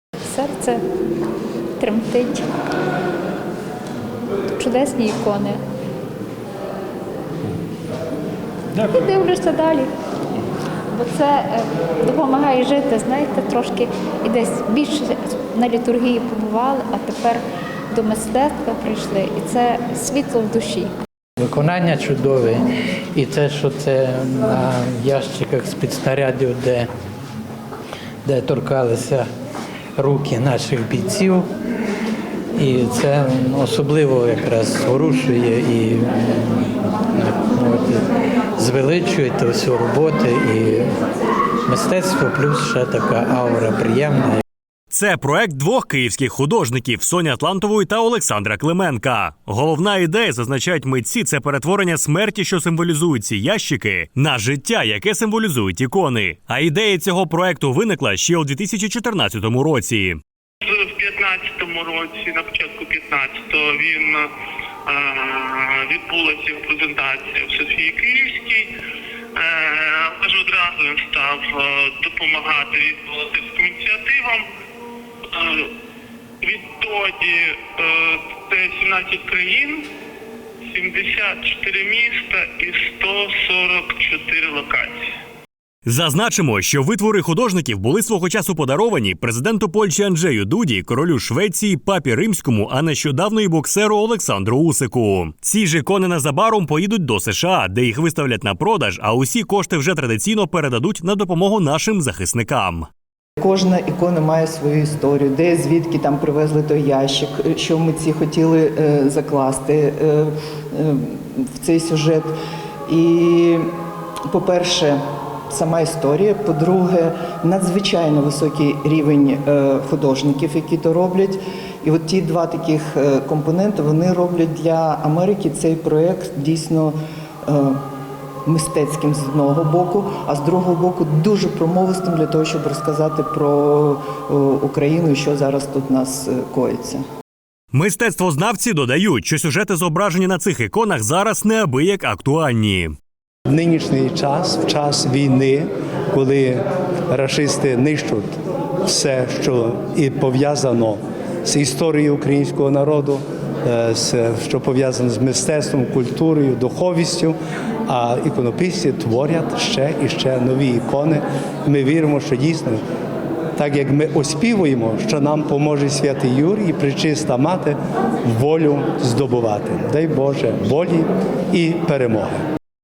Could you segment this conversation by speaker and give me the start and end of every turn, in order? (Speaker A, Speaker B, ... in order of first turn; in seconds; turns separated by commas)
Speaker A: 0.3-0.8, Speaker A: 1.8-2.4, Speaker A: 4.6-5.6, Speaker A: 8.8-9.9, Speaker A: 10.9-20.9, Speaker B: 21.4-26.9, Speaker B: 28.2-29.3, Speaker B: 30.0-31.5, Speaker B: 32.6-40.9, Speaker B: 41.6-44.4, Speaker C: 44.9-60.2, Speaker D: 60.6-64.2, Speaker D: 64.9-68.7, Speaker D: 69.4-74.4, Speaker D: 75.3-75.7, Speaker D: 76.4-79.8, Speaker D: 80.7-85.0, Speaker C: 85.9-102.9, Speaker E: 103.4-112.3, Speaker E: 112.9-113.7, Speaker E: 114.3-115.0, Speaker E: 115.5-127.8, Speaker E: 128.5-137.0, Speaker C: 137.7-142.9, Speaker F: 143.5-157.4, Speaker F: 157.9-162.8, Speaker F: 163.6-172.4